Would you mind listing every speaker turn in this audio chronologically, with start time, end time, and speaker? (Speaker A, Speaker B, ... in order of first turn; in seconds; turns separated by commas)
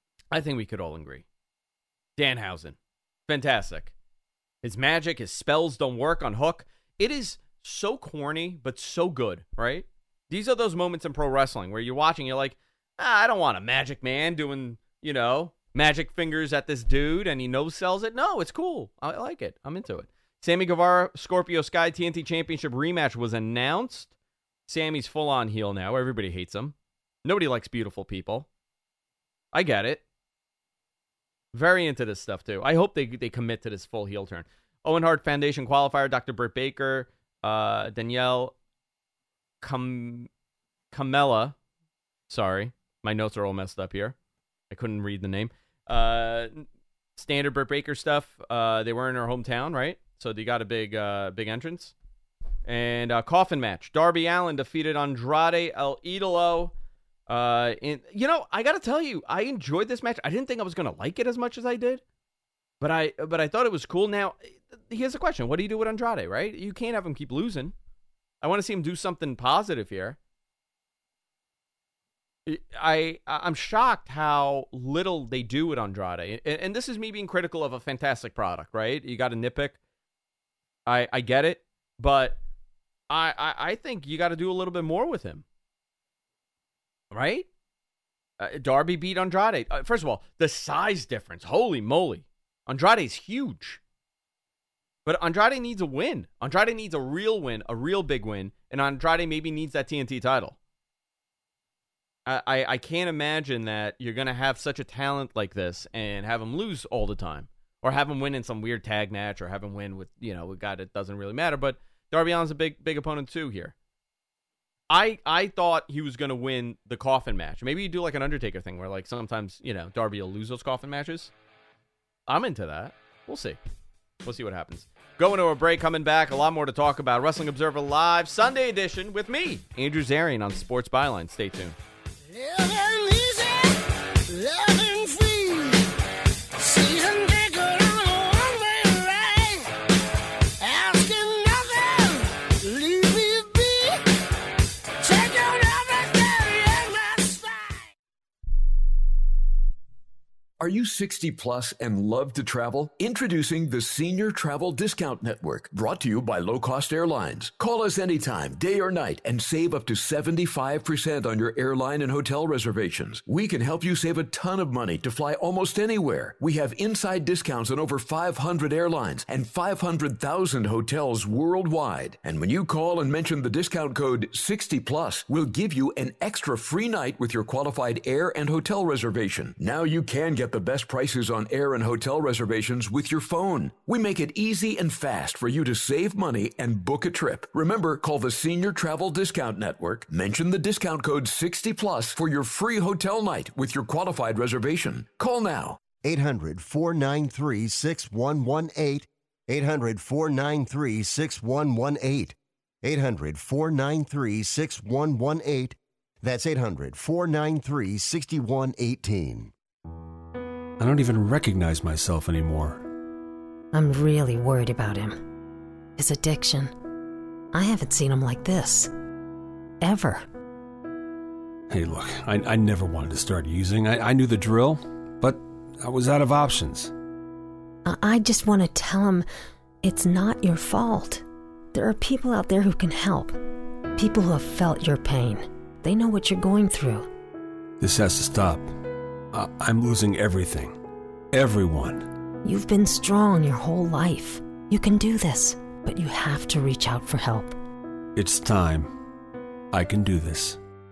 Speaker A: 0.3-1.2, Speaker A: 2.2-2.8, Speaker A: 3.3-3.9, Speaker A: 4.6-24.1, Speaker A: 24.7-28.5, Speaker A: 29.5-30.0, Speaker A: 31.5-38.5, Speaker A: 39.6-40.3, Speaker A: 40.9-41.5, Speaker A: 42.3-44.1, Speaker A: 44.7-51.9, Speaker A: 52.6-56.7, Speaker A: 57.3-62.0, Speaker A: 62.8-67.7, Speaker A: 68.4-70.2, Speaker A: 72.5-79.8, Speaker A: 80.8-82.4, Speaker A: 83.1-85.4, Speaker A: 87.1-87.5, Speaker A: 88.4-93.8, Speaker A: 95.0-100.6, Speaker A: 102.2-113.7, Speaker A: 114.9-121.3, Speaker A: 122.3-123.6, Speaker A: 124.2-131.8, Speaker B: 132.4-133.7, Speaker B: 134.3-135.8, Speaker B: 136.6-139.6, Speaker B: 140.6-142.1, Speaker B: 142.6-143.8, Speaker B: 145.1-147.3, Speaker C: 150.6-195.8, Speaker B: 196.0-209.5, Speaker D: 210.8-212.8, Speaker E: 213.7-215.2, Speaker E: 216.0-216.7, Speaker E: 217.5-218.9, Speaker E: 219.8-220.2, Speaker D: 221.7-226.9, Speaker E: 227.8-229.2, Speaker E: 229.8-233.3, Speaker E: 233.9-237.1, Speaker D: 237.8-238.7, Speaker D: 239.3-240.8, Speaker D: 241.3-242.1, Speaker E: 242.4-247.6, Speaker D: 248.2-248.9, Speaker D: 249.7-250.6